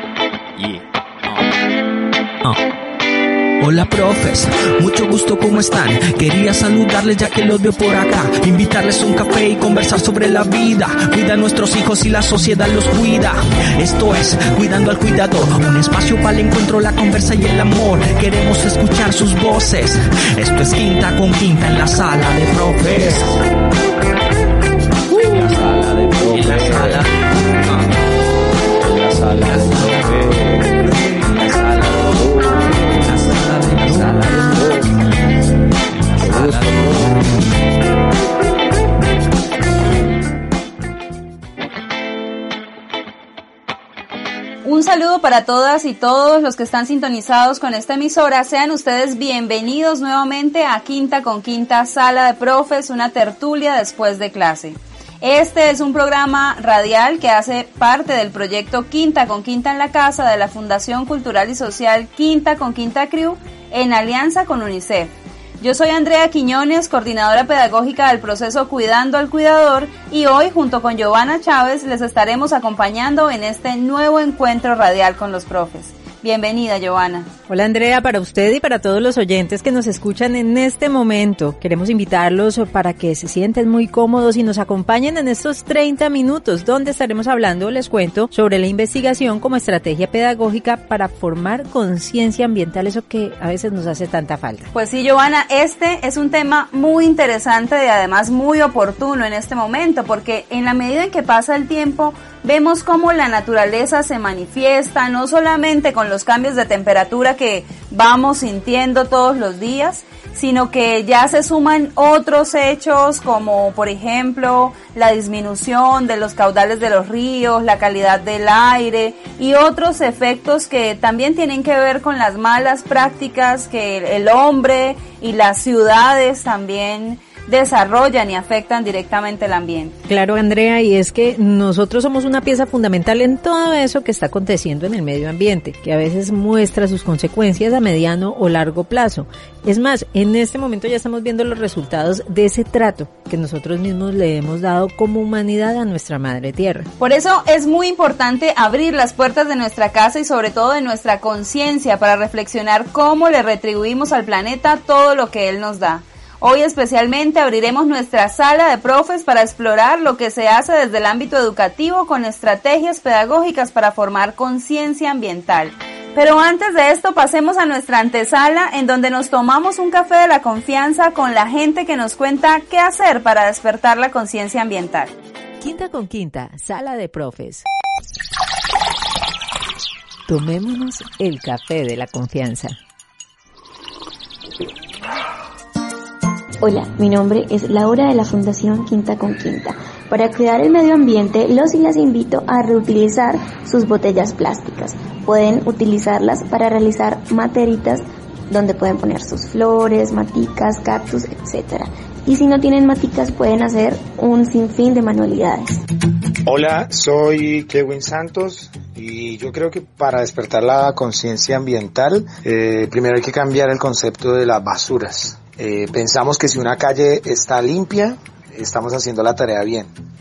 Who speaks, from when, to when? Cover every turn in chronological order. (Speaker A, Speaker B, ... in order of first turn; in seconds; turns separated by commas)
Speaker A: 3.6-23.3, Speaker B: 25.7-26.9, Speaker A: 26.3-27.0, Speaker B: 28.9-32.9, Speaker A: 33.1-34.3, Speaker B: 36.1-37.1, Speaker A: 36.3-36.6, Speaker C: 44.6-77.3, Speaker D: 77.5-94.7, Speaker C: 94.7-129.9, Speaker D: 130.1-146.9, Speaker C: 147.0-175.1, Speaker D: 175.6-177.6, Speaker D: 180.3-182.8, Speaker E: 186.6-205.8, Speaker F: 206.4-219.9